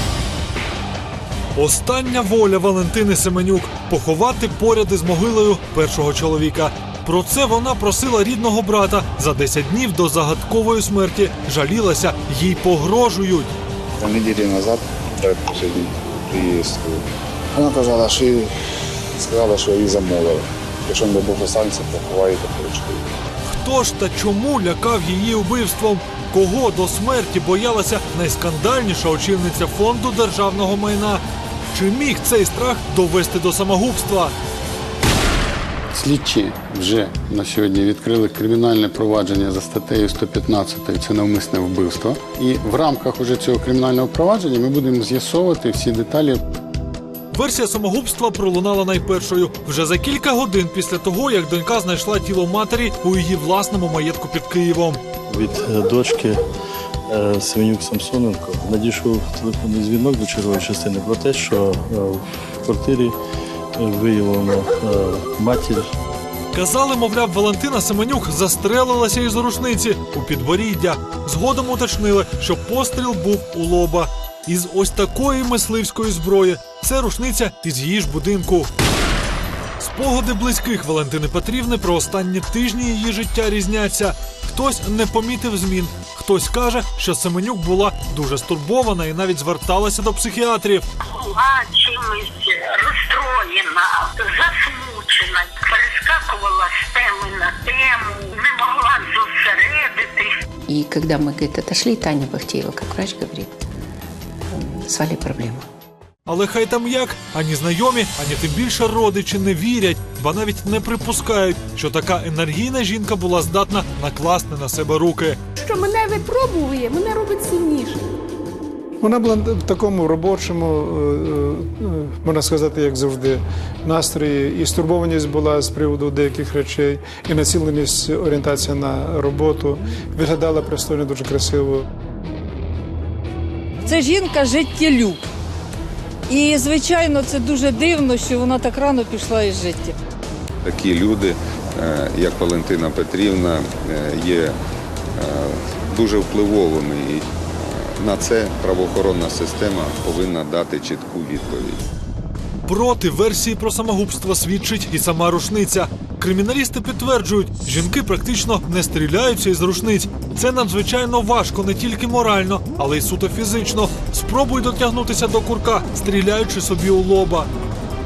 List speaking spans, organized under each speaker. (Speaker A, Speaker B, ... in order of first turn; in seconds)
Speaker A: 1.5-13.5, 23.5-34.3, 47.3-55.0, 66.5-78.7, 79.8-90.8, 106.3-115.4, 152.7-167.5
Speaker B: 14.0-18.5, 19.2-23.0
Speaker C: 35.9-46.4
Speaker D: 55.3-56.4, 57.1-63.1, 63.7-65.9
Speaker E: 91.1-100.3
Speaker F: 100.7-103.6, 104.5-105.7
Speaker G: 115.7-118.0
Speaker H: 119.0-131.8
Speaker I: 133.8-135.2, 136.3-139.9
Speaker J: 140.6-144.6, 145.1-151.8